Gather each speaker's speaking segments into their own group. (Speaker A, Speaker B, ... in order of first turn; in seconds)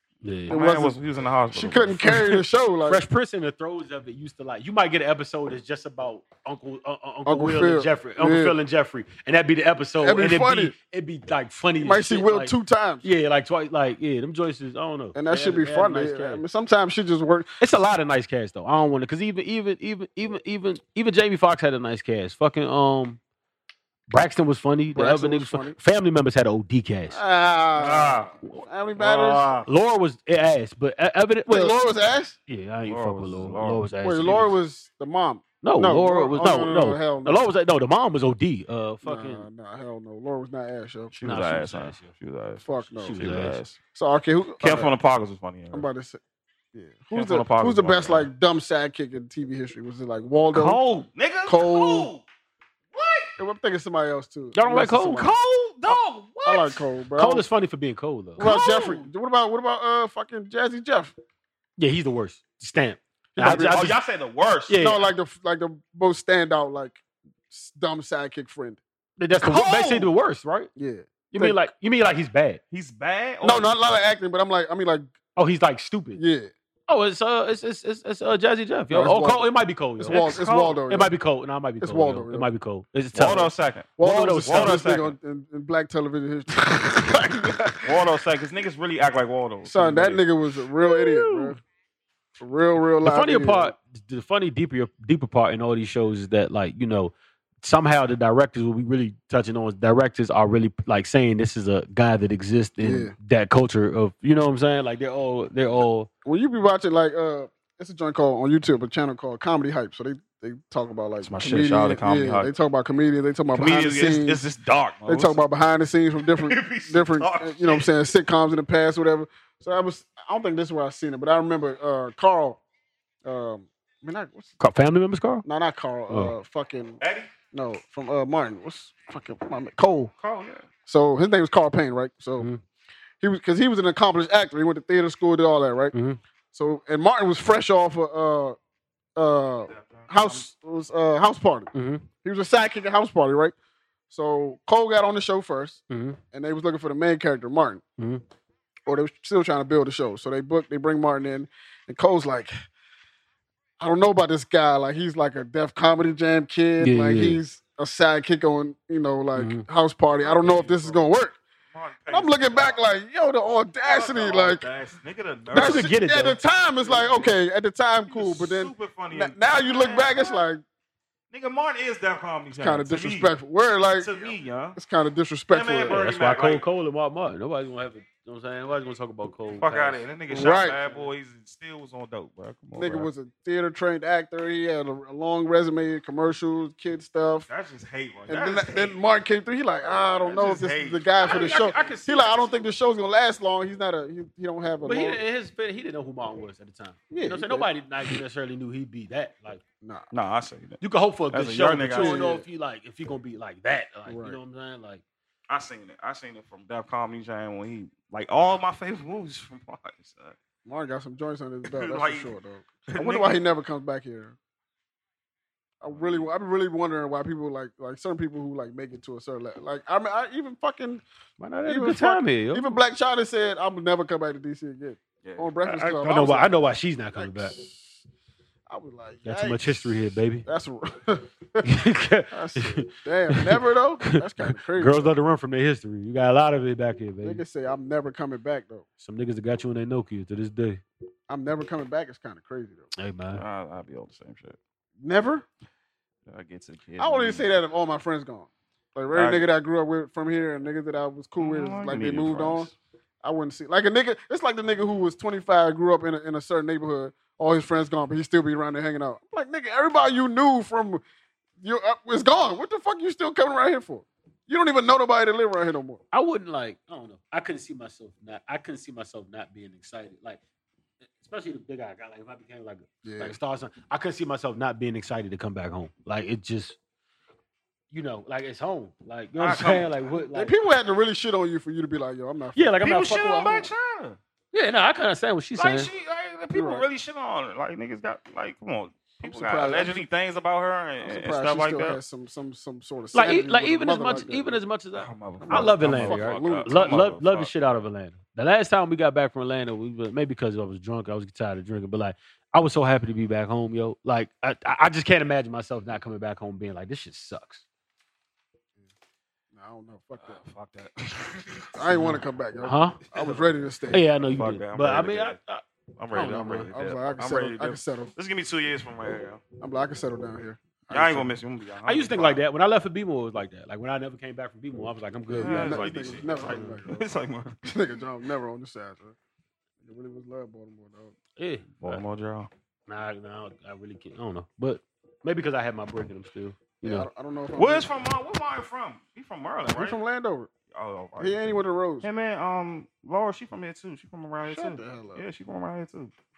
Speaker A: 0.2-0.6, 2.9-16.4, 17.6-23.2, 24.1-27.2, 29.6-31.8, 32.5-34.5, 35.6-39.5, 41.2-42.1, 43.0-43.6, 54.5-55.2, 57.2-58.5, 61.8-64.0, 64.7-65.0, 69.2-70.7, 71.3-72.6, 75.4-76.2, 76.9-80.2, 80.9-84.8, 90.9-91.5, 93.0-106.1, 124.6-125.5, 135.9-136.2, 141.7-142.1, 145.9-146.2, 156.8-157.4, 159.3-159.6, 165.5-166.4, 175.9-180.7, 191.2-192.6, 194.8-199.6, 200.8-205.0, 221.4-222.7, 225.8-227.6, 229.2-230.5, 231.6-237.4, 239.0-240.8, 243.0-243.4, 266.1-270.4, 271.2-276.8, 277.9-280.5, 282.6-283.7, 284.5-285.9, 293.1-307.6, 312.6-313.0, 313.9-315.6, 316.1-316.6, 321.9-326.7, 331.4-332.0, 332.9-337.1
Speaker B: 0.5-1.0, 1.5-3.0, 7.3-8.6, 10.0-10.8, 11.8-13.1, 15.1-17.5, 24.9-25.8, 27.1-29.5, 31.5-32.4, 34.0-37.5, 39.0-41.1, 42.6-43.2, 43.9-44.9, 45.7-46.2, 46.7-50.8, 51.5-52.1, 53.4-55.3, 55.9-57.5, 58.4-61.1, 63.4-64.0, 64.7-68.8, 69.5-70.0, 70.8-71.6, 73.4-75.1, 76.2-76.5, 78.9-79.5, 80.0-81.1, 81.8-82.5, 84.0-88.0, 89.6-91.6, 92.4-93.7, 102.8-103.1, 106.2-114.4, 115.1-122.6, 123.2-124.5, 125.5-127.0, 127.5-130.1, 130.9-132.5, 133.2-135.9, 136.5-138.6, 139.2-141.7, 142.2-143.5, 144.1-147.8, 148.9-152.5, 153.8-161.4, 162.1-164.7, 165.5-170.6, 172.6-176.0, 180.3-180.8, 182.8-187.5, 188.3-195.2, 197.1-197.7, 201.9-202.4, 204.1-204.4, 210.7-214.4, 215.8-221.0, 221.7-226.5, 227.1-228.0, 228.7-231.6, 232.3-235.1, 237.2-238.9, 241.3-242.9, 245.0-245.4, 247.0-252.7, 253.2-261.0, 261.6-266.0, 273.0-273.4, 280.3-282.8, 286.5-286.9, 289.2-290.1, 291.0-294.6, 295.4-297.0, 309.5-310.4, 311.8-314.0, 316.2-318.1, 319.6-321.3, 325.3-327.1, 327.6-329.2, 329.8-331.1, 336.8-337.9, 339.7-340.5, 341.2-342.1, 344.5-345.2
Speaker C: 0.5-2.2, 27.8-28.4, 29.0-29.7, 32.9-33.9, 41.1-43.8, 44.6-45.9, 47.1-48.3, 50.5-52.2, 52.9-53.3, 55.1-56.8, 58.4-59.1, 63.4-64.8, 69.5-70.0, 72.7-73.7, 80.1-80.8, 83.1-83.9, 84.5-85.1, 87.8-90.2, 111.2-112.5, 113.5-115.4, 116.4-117.9, 127.0-127.3, 130.2-130.6, 139.7-140.5, 160.2-161.1, 161.7-162.8, 163.8-165.9, 166.8-167.4, 168.1-170.3, 171.3-173.3, 174.0-174.8, 175.5-176.6, 179.5-183.1, 187.5-189.0, 190.2-192.0, 200.1-202.2, 205.5-210.4, 211.7-212.3, 212.9-213.4, 215.9-216.3, 225.2-226.3, 243.3-244.6, 246.3-247.5, 249.1-249.4, 251.4-252.7, 279.4-279.9, 282.8-284.2, 285.6-292.0, 295.0-297.5, 310.2-312.2, 313.1-313.4, 314.2-315.4, 316.0-319.4, 320.9-322.4, 325.4-327.6, 331.8-332.5, 337.6-340.0, 340.7-346.1